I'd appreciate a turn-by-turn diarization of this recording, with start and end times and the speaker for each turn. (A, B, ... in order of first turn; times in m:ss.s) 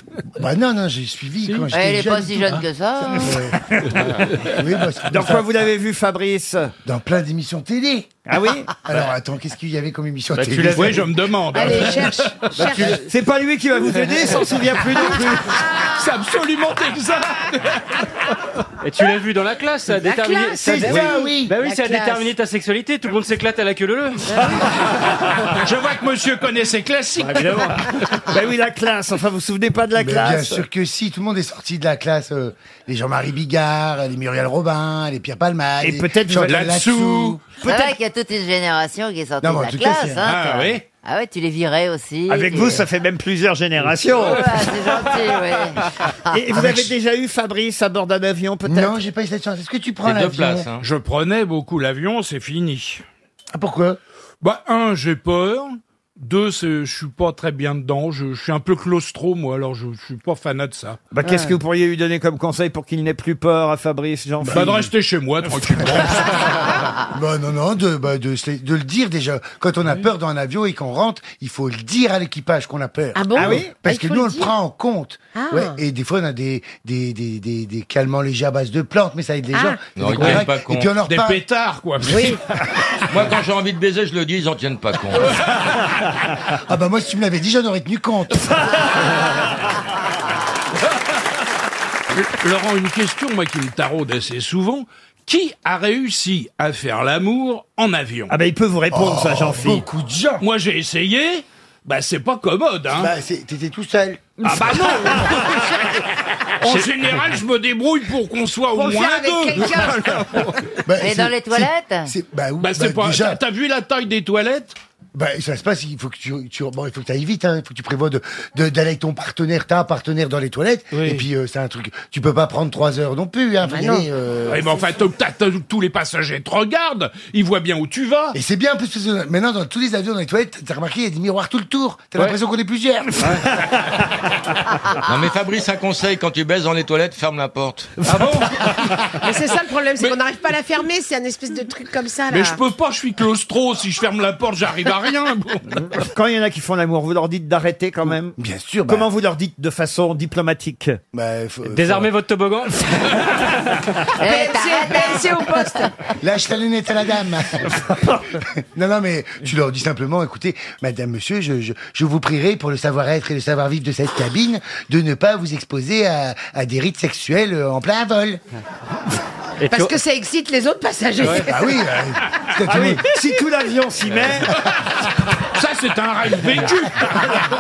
0:00.4-0:03.6 A
0:01.7-0:03.4 B
0:03.3-0:04.0 C
0:04.4-0:05.5 A
0:05.1-0:06.7 C
0:06.8-0:08.1 A
0:08.3-0:08.7 C
0:08.7-0:11.1 A
0:10.4-0:12.5 D
0:11.5-0:13.0 E
0:12.7-0:15.4 C
0:15.7-0:17.8 D
0:18.8-0:24.5 F
0:20.1-0:20.8 E
0:20.6-0:21.6 A
0:25.5-0:27.8 D
0:27.3-0:27.7 F
0:28.3-0:30.6 C
0:30.0-0:37.9 A
0:35.8-0:36.7 C
0:36.4-0:37.5 D
0:37.6-0:42.9 B
0:39.4-0:40.3 A
0:40.2-0:40.9 D
0:42.3-0:44.6 C
0:44.1-0:45.8 B
0:46.3-0:49.0 C
0:46.6-0:46.9 A
0:48.6-0:50.7 A
0:50.0-0:50.8 G
0:50.8-0:53.0 D
0:53.5-0:54.0 A
0:54.4-1:01.0 D
1:01.1-1:04.8 C
1:04.5-1:06.5 D
1:04.5-1:04.9 A
1:05.9-1:21.4 A
1:13.2-1:14.5 E
1:13.4-1:13.7 C
1:15.4-1:15.8 E
1:19.5-1:19.8 E
1:20.0-1:20.9 G
1:20.2-1:20.5 D
1:21.0-1:22.4 D
1:22.1-1:22.4 E
1:23.1-1:25.4 G
1:26.7-1:28.9 A
1:32.1-1:38.3 D
1:38.3-1:39.9 C
1:38.9-1:40.5 A
1:40.4-1:43.1 D
1:42.9-1:45.5 A
1:44.4-1:45.7 D
1:45.1-1:45.4 C
1:46.6-1:50.4 D
1:49.1-1:49.5 E
1:50.9-1:53.4 A
1:51.0-1:52.1 B
1:52.6-1:54.8 D
1:55.1-2:04.8 A
2:03.7-2:04.1 E
2:04.5-2:08.4 D
2:08.3-2:13.2 A
2:15.0-2:17.9 G
2:18.0-2:18.3 D
2:18.0-2:18.5 C
2:19.2-2:22.6 E
2:22.3-2:25.8 D
2:25.9-2:31.0 C
2:28.4-2:29.1 A
2:31.1-2:32.1 A
2:31.6-2:33.2 F
2:34.2-2:35.2 B
2:34.2-2:35.9 E
2:36.2-2:38.2 A
2:38.8-2:48.4 A
2:49.6-2:50.0 F
2:49.7-2:51.8 E
2:51.2-2:53.0 A
2:52.7-2:54.5 C
2:54.5-2:57.4 D